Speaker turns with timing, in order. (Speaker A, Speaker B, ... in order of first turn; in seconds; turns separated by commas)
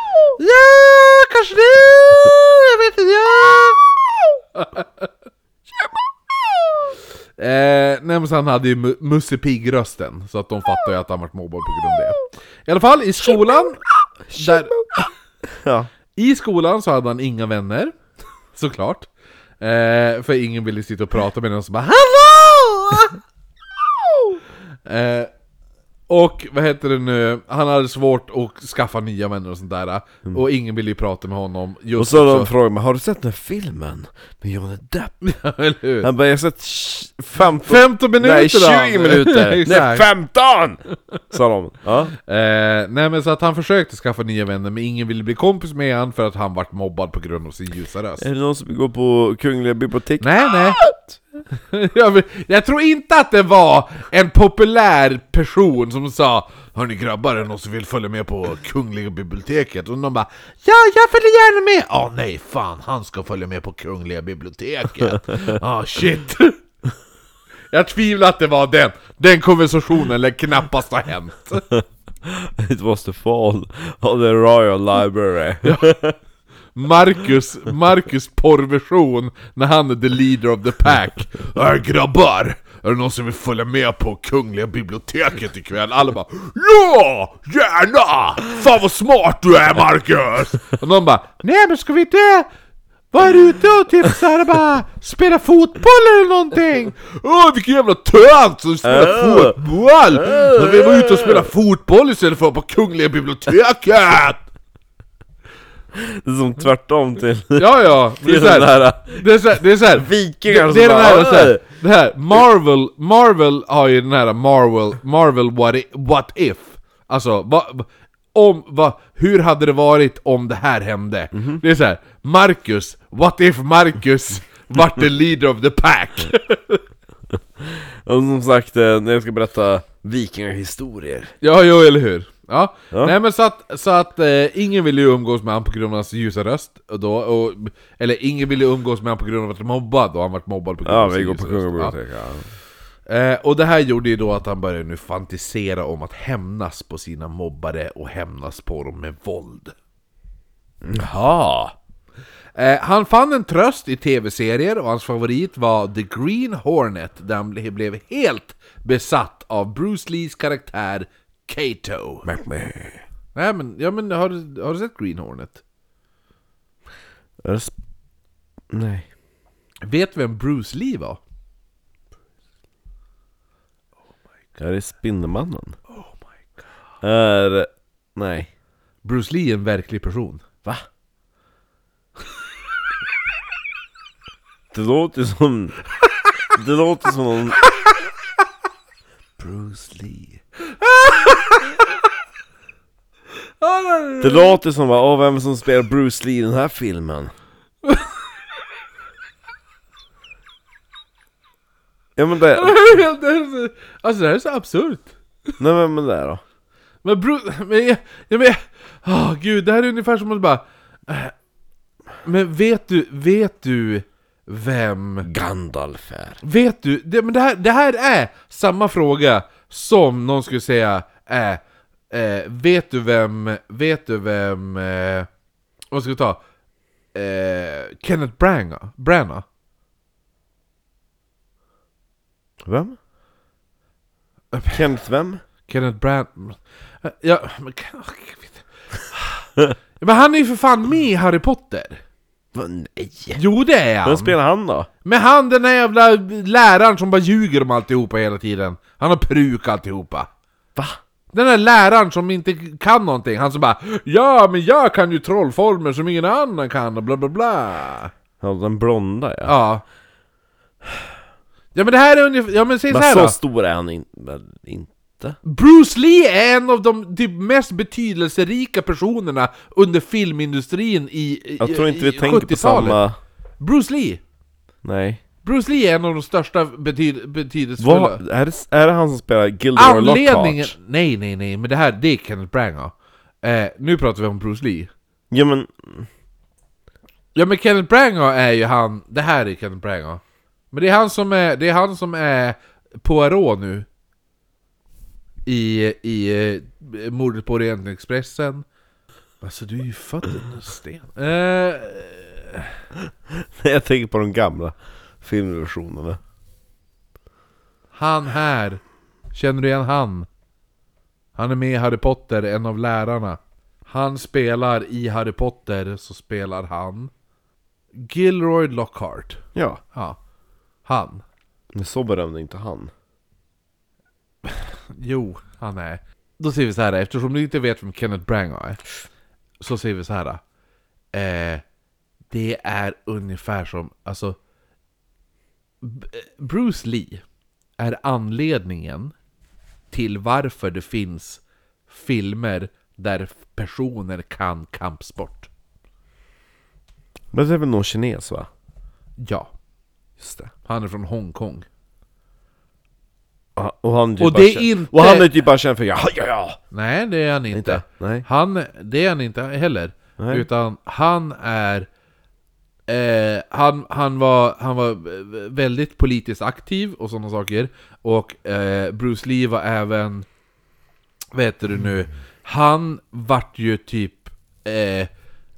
Speaker A: 0.3-3.8, Speaker A: 4.5-5.1, Speaker B: 5.7-6.8, Speaker A: 7.4-13.8, Speaker B: 14.3-15.9, Speaker A: 14.3-14.7, Speaker A: 16.1-17.9, Speaker A: 18.5-19.1, Speaker A: 19.6-23.2, Speaker B: 24.1-24.4, Speaker A: 24.9-25.3, Speaker A: 26.1-32.5, Speaker B: 32.0-35.2, Speaker A: 35.2-36.1, Speaker B: 36.0-42.1, Speaker A: 37.6-40.0, Speaker A: 42.1-48.2, Speaker B: 48.2-51.2, Speaker A: 50.2-50.8, Speaker A: 51.5-66.6, Speaker A: 67.7-71.6, Speaker B: 71.7-76.2, Speaker A: 75.6-76.0, Speaker A: 76.7-92.5, Speaker A: 93.1-104.4, Speaker B: 98.8-99.6, Speaker B: 100.1-101.5, Speaker B: 105.9-109.3, Speaker A: 107.5-126.8, Speaker B: 109.9-111.6, Speaker B: 121.3-121.6, Speaker B: 127.6-131.3, Speaker A: 131.4-141.9, Speaker B: 140.8-142.5, Speaker A: 143.1-149.7, Speaker B: 150.8-151.7, Speaker A: 152.6-162.3, Speaker B: 162.2-163.0, Speaker A: 163.3-165.6, Speaker B: 167.4-167.7, Speaker B: 168.7-169.1, Speaker A: 169.8-171.2, Speaker B: 174.6-175.8, Speaker A: 175.9-176.2, Speaker B: 177.0-178.5, Speaker A: 179.0-180.4, Speaker B: 184.7-185.7, Speaker B: 186.5-187.6, Speaker A: 187.7-187.9, Speaker B: 189.4-190.4, Speaker A: 190.7-191.9, Speaker A: 193.6-194.6, Speaker B: 194.2-197.3, Speaker A: 197.8-198.1, Speaker B: 202.2-202.8, Speaker A: 202.5-205.5, Speaker B: 205.6-206.4, Speaker A: 207.0-211.3, Speaker A: 212.2-215.3, Speaker B: 215.2-216.4, Speaker A: 216.4-225.3, Speaker A: 225.9-226.4, Speaker A: 227.1-229.4, Speaker B: 232.6-232.9, Speaker A: 234.5-234.8, Speaker B: 234.7-235.4, Speaker A: 235.7-242.0, Speaker B: 242.5-243.4, Speaker A: 243.3-244.3, Speaker B: 244.0-244.9, Speaker A: 245.0-250.3, Speaker A: 251.3-258.1, Speaker B: 258.4-259.5, Speaker A: 259.4-259.8, Speaker A: 261.7-263.4, Speaker B: 262.9-265.4, Speaker A: 265.4-273.0, Speaker B: 271.6-273.2, Speaker A: 273.6-274.2, Speaker B: 274.8-275.2, Speaker A: 275.4-278.2, Speaker B: 277.8-280.7, Speaker A: 279.8-284.9, Speaker B: 285.3-286.1, Speaker A: 287.3-290.2, Speaker A: 290.7-293.9, Speaker A: 295.4-298.6, Speaker A: 299.4-302.8, Speaker B: 303.3-306.2, Speaker A: 307.9-308.8, Speaker A: 309.3-310.3, Speaker A: 311.4-317.1, Speaker A: 318.0-319.4, Speaker B: 319.5-319.8, Speaker A: 320.9-321.2, Speaker B: 321.7-322.9, Speaker A: 324.4-328.8, Speaker A: 329.6-330.4, Speaker A: 331.1-331.6, Speaker A: 332.3-334.4, Speaker A: 335.8-337.2, Speaker A: 337.8-339.1, Speaker A: 339.9-345.5, Speaker B: 347.3-348.5, Speaker A: 349.2-349.5, Speaker B: 350.2-350.5, Speaker A: 350.6-351.7, Speaker B: 353.6-356.6, Speaker A: 354.2-355.3, Speaker A: 356.7-361.9, Speaker B: 357.5-358.2, Speaker B: 360.2-360.5, Speaker A: 362.9-370.3, Speaker A: 371.3-375.1